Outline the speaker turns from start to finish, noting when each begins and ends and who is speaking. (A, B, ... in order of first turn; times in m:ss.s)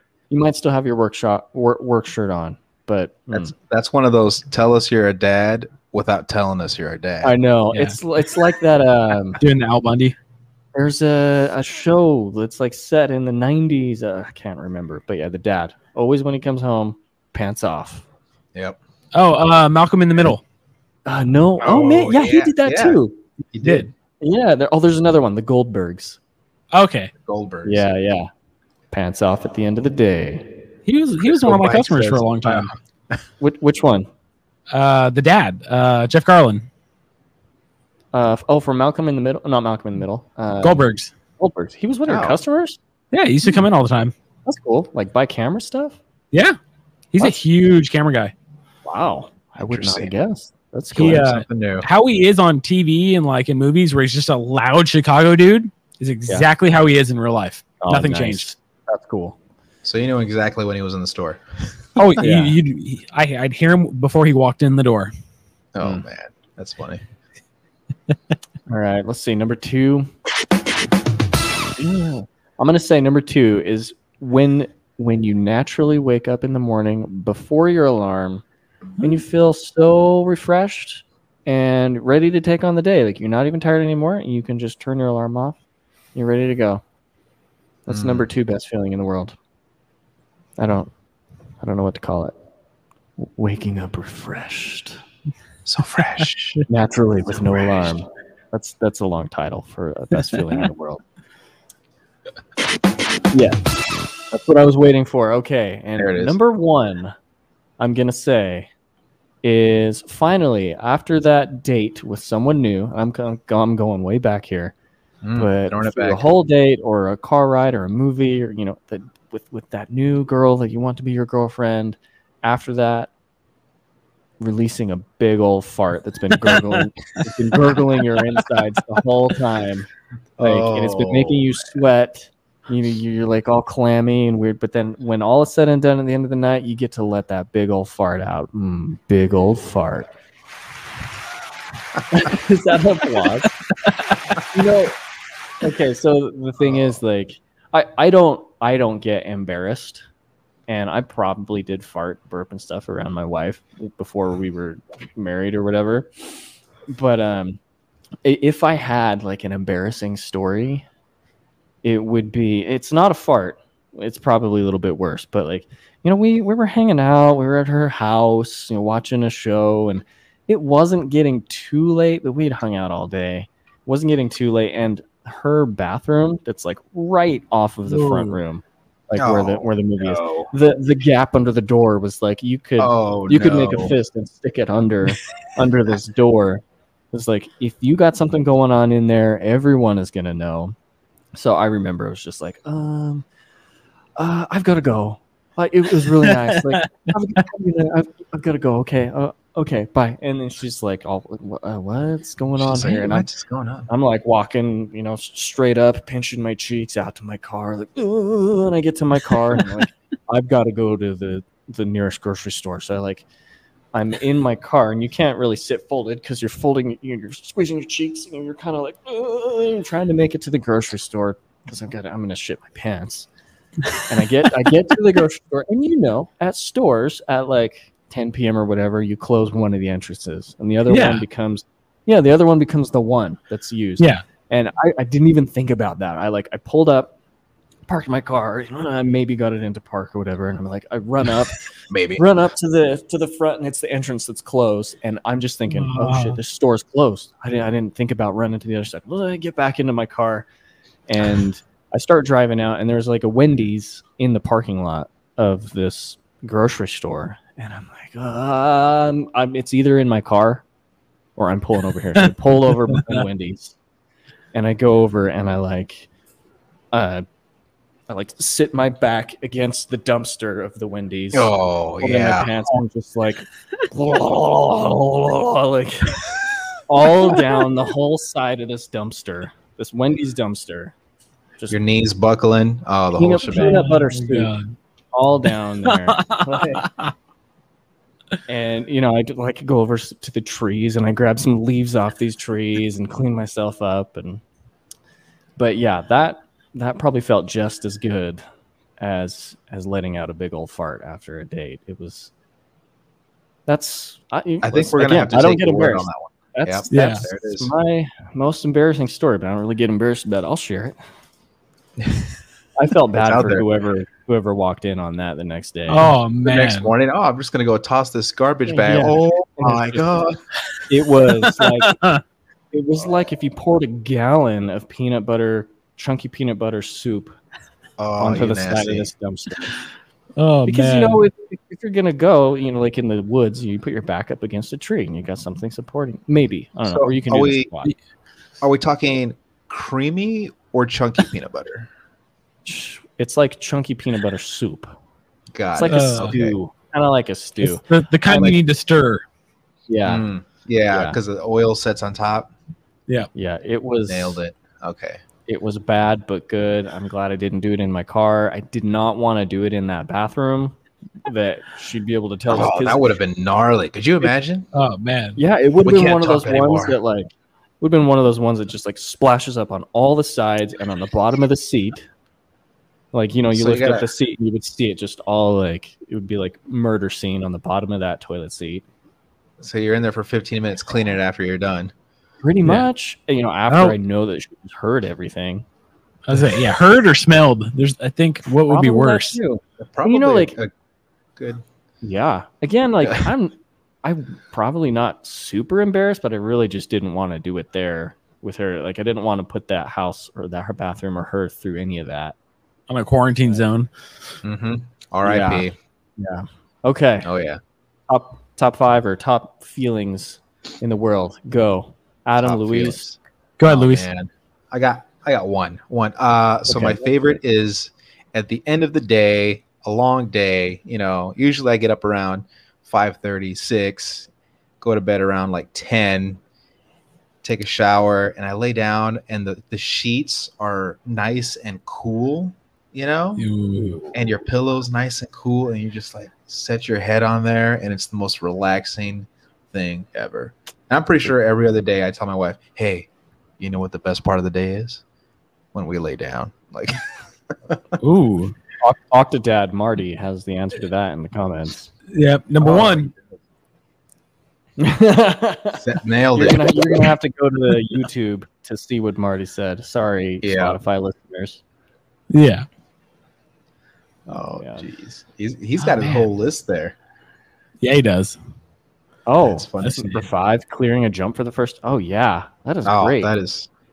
0:00.3-0:03.5 A
0:03.3-0:07.4 B
0:07.2-0:09.4 A
0:09.4-0:10.2 C
0:10.7-0:18.1 A
0:19.1-0:20.4 C
0:21.1-0:23.2 A
0:21.6-0:23.0 B
0:23.5-0:23.9 B
0:24.2-0:26.2 A
0:26.7-0:27.1 C
0:27.2-0:27.9 B
0:27.6-0:28.3 A
0:28.9-0:30.5 A
0:30.9-0:32.7 C
0:31.2-0:33.2 B
0:33.4-0:34.1 A
0:34.7-0:36.7 C
0:38.1-0:40.8 A
0:40.6-0:41.1 C
0:41.4-0:42.8 A
0:42.1-0:42.4 B
0:43.1-0:44.1 C
0:44.5-0:46.0 A
0:46.3-0:46.6 C
0:47.1-0:48.3 C
0:48.8-0:51.3 A
0:49.7-0:50.1 B
0:51.0-0:58.6 C
0:51.0-0:51.9 B
0:57.8-0:59.4 A
0:59.8-1:01.4 B
1:02.0-1:05.1 C
1:02.2-1:02.6 A
1:05.7-1:07.0 B
1:08.7-1:10.1 A
1:11.8-1:18.4 A
1:19.0-1:25.6 A
1:26.2-1:26.8 A
1:27.9-1:29.4 A
1:27.9-1:28.3 B
1:30.6-1:30.9 A
1:31.6-1:32.3 A
1:33.2-1:35.0 A
1:35.6-1:36.6 B
1:36.7-1:41.0 A
1:37.5-1:37.9 B
1:43.3-1:43.6 A
1:44.3-1:47.2 A
1:46.0-1:46.4 B
1:47.8-1:48.7 A
1:49.4-1:54.7 A
1:55.2-1:56.3 B
1:55.4-2:03.1 A
2:04.4-2:20.1 A
2:06.4-2:06.8 C
2:10.4-2:11.5 B
2:22.1-2:23.5 A
2:24.4-2:25.0 A
2:25.6-2:30.0 A
2:30.7-2:36.1 A
2:36.9-2:37.6 A
2:38.2-2:40.9 A
2:41.8-3:10.8 A
2:57.9-2:58.4 C
2:59.2-3:00.5 B
3:02.8-3:04.0 B
3:11.3-3:13.2 A
3:14.2-3:23.3 A
3:22.6-3:23.9 B
3:23.9-3:33.3 A
3:33.9-3:43.3 A
3:44.1-3:57.2 A
3:50.9-3:51.2 C
3:54.0-3:54.2 C
3:57.9-4:01.6 A
4:01.9-4:02.2 B
4:02.2-4:10.5 A
4:05.7-4:06.4 C
4:11.1-4:20.6 A
4:21.4-4:23.8 A
4:22.9-4:23.2 C
4:24.5-4:26.1 A
4:26.9-4:27.2 A
4:28.1-4:36.2 A
4:31.3-4:32.5 B
4:36.9-4:41.0 A
4:41.7-4:43.9 B
4:43.1-4:44.5 A
4:43.5-4:44.7 C
4:45.1-4:46.8 A
4:45.8-4:46.9 C
4:46.5-4:46.9 B
4:48.5-4:54.4 A
4:55.6-4:58.4 A
4:59.0-5:02.3 A
5:03.7-5:11.0 A
5:04.6-5:07.7 B
5:06.9-5:07.2 C
5:12.8-5:16.1 A
5:13.2-5:13.7 B
5:15.9-5:16.9 C
5:16.4-5:20.4 B
5:18.7-5:20.2 A
5:20.9-5:22.0 A
5:21.4-5:22.2 C
5:22.7-5:27.4 A
5:28.0-5:29.1 B
5:28.2-5:29.8 A
5:30.4-5:31.2 C
5:30.7-5:37.9 A
5:36.9-5:37.7 B
5:38.6-5:41.9 B
5:42.6-5:44.9 A
5:45.5-5:46.6 B
5:45.7-5:48.5 A
5:45.9-5:46.4 C
5:47.6-5:49.2 C
5:48.3-5:48.6 B
5:49.9-5:50.3 A
5:50.0-5:52.5 B
5:50.9-5:51.2 A
5:53.4-5:54.4 A
5:54.1-5:55.2 B
5:55.5-6:03.2 A
6:02.5-6:04.7 B
6:04.7-6:05.4 C
6:05.4-6:12.1 A
6:05.8-6:07.0 B
6:13.1-6:18.8 A
6:13.5-6:14.1 B
6:19.6-6:21.9 B
6:22.4-6:25.6 A
6:23.7-6:24.0 C
6:26.3-6:29.4 C
6:28.7-6:30.6 A
6:29.8-6:30.7 B
6:31.4-6:31.6 B
6:32.0-6:42.4 A
6:42.9-6:43.9 C
6:44.4-6:45.8 B
6:45.2-6:47.3 A
6:47.2-6:47.6 B
6:48.1-6:53.1 A
6:52.4-7:04.3 B
6:53.6-6:54.1 C
6:56.7-6:57.1 A
7:04.8-7:06.4 B
7:07.4-7:13.5 B
7:13.4-7:14.0 C
7:13.8-7:14.1 A
7:14.1-7:23.1 B
7:23.6-7:25.0 B
7:25.7-7:28.0 B
7:28.0-7:28.6 C
7:28.8-7:31.9 A
7:32.1-7:33.1 C
7:32.6-7:33.0 B
7:34.8-7:41.6 A
7:35.8-7:37.1 B
7:40.4-7:40.8 B
7:42.3-7:42.7 C
7:44.3-7:47.0 B
7:44.3-7:44.8 A
7:45.8-7:46.3 C
7:47.8-7:48.4 C
7:49.3-7:53.3 A
7:49.4-7:50.0 B
7:49.8-7:50.2 C
7:52.8-7:53.7 B